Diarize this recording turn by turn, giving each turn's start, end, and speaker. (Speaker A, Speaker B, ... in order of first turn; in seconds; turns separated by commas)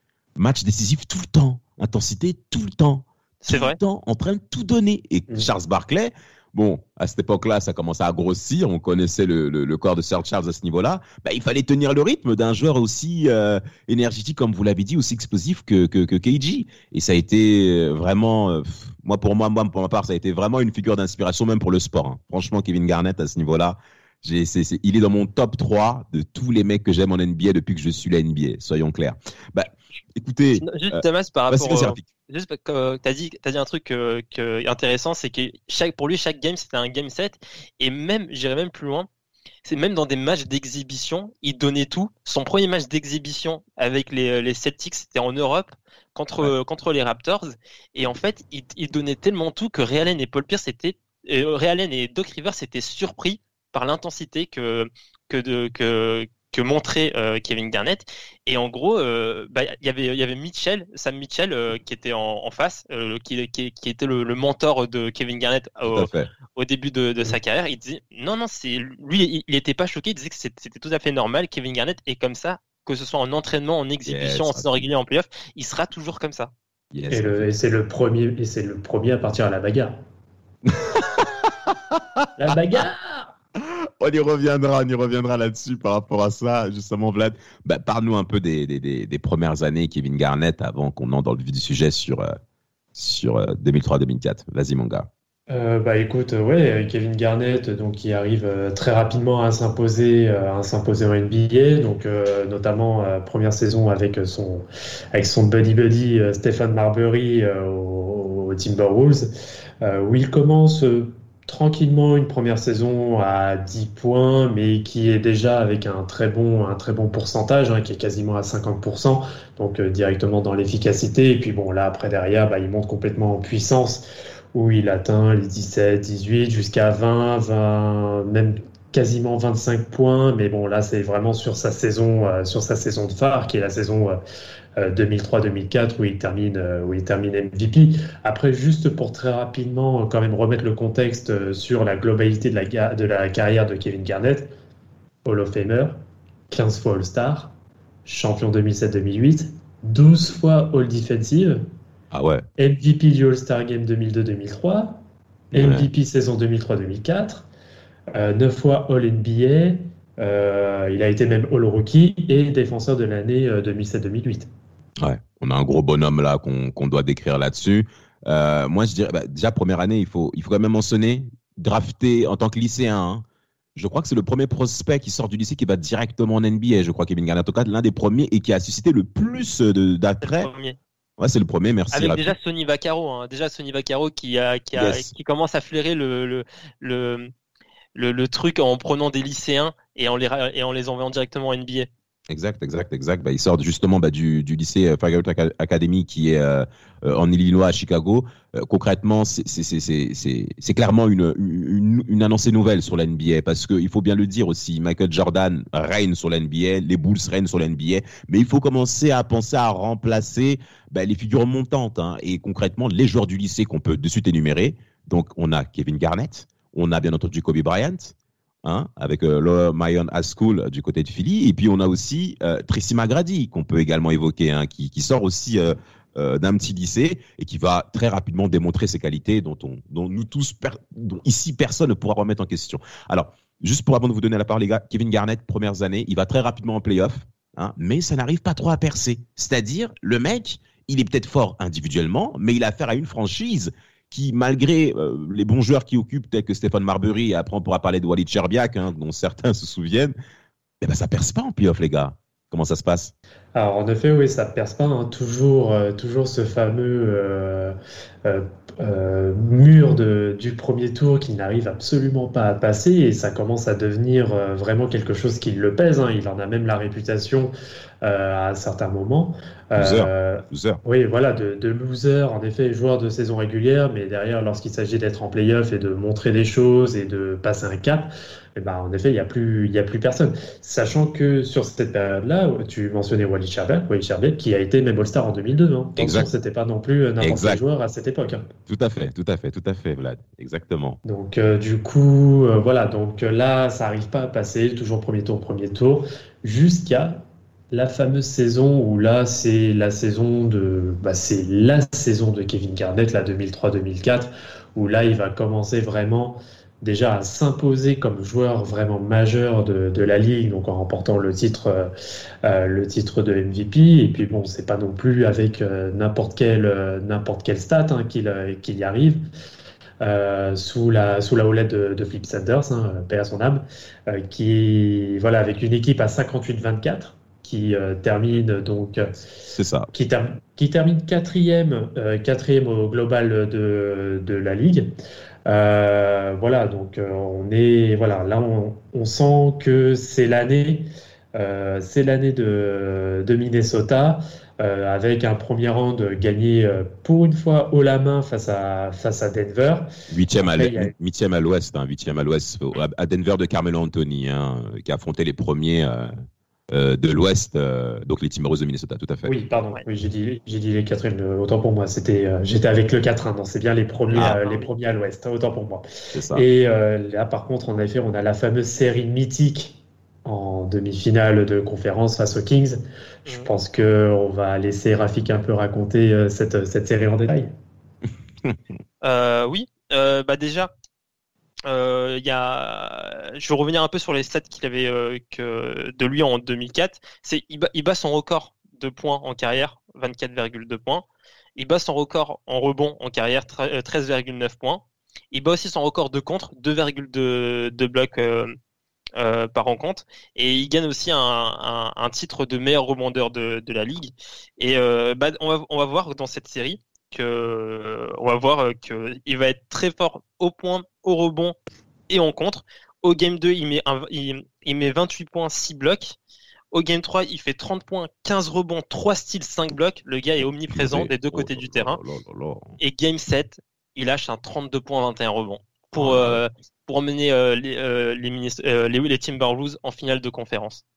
Speaker A: 0.4-32.1, Speaker B: 3.4-3.8, Speaker B: 30.6-39.1, Speaker B: 39.6-76.5, Speaker A: 65.9-66.3, Speaker A: 74.1-74.9, Speaker A: 76.9-77.5, Speaker C: 77.1-80.0, Speaker A: 80.7-82.3, Speaker C: 82.4-83.3, Speaker A: 83.6-92.3, Speaker A: 93.0-95.1, Speaker C: 95.5-109.3, Speaker C: 109.8-134.2, Speaker C: 134.8-144.5, Speaker C: 145.2-146.0, Speaker C: 146.5-147.5, Speaker C: 148.1-151.6, Speaker A: 152.1-152.5, Speaker C: 152.6-155.0, Speaker A: 155.5-155.9, Speaker C: 155.5-157.5, Speaker C: 158.1-164.5, Speaker A: 165.0-180.5, Speaker B: 180.2-180.8, Speaker A: 181.2-182.3, Speaker B: 181.9-187.3, Speaker A: 184.8-185.1, Speaker B: 187.9-191.9, Speaker A: 192.3-250.1, Speaker A: 250.8-253.1, Speaker C: 253.6-288.5, Speaker A: 269.8-270.8, Speaker A: 286.0-286.3, Speaker A: 287.2-287.6, Speaker A: 288.7-291.0, Speaker C: 291.1-311.9, Speaker C: 312.4-319.2, Speaker C: 320.0-329.2, Speaker A: 329.5-329.9, Speaker C: 329.9-334.9, Speaker C: 335.5-350.9, Speaker A: 350.1-356.1, Speaker A: 356.7-359.3, Speaker C: 359.2-377.5, Speaker A: 366.1-366.4, Speaker B: 379.0-380.7, Speaker B: 381.7-391.1, Speaker B: 391.6-398.6, Speaker B: 399.2-411.6, Speaker B: 412.1-416.2, Speaker B: 416.7-422.0, Speaker A: 420.7-422.8, Speaker B: 422.8-430.8, Speaker A: 426.0-426.4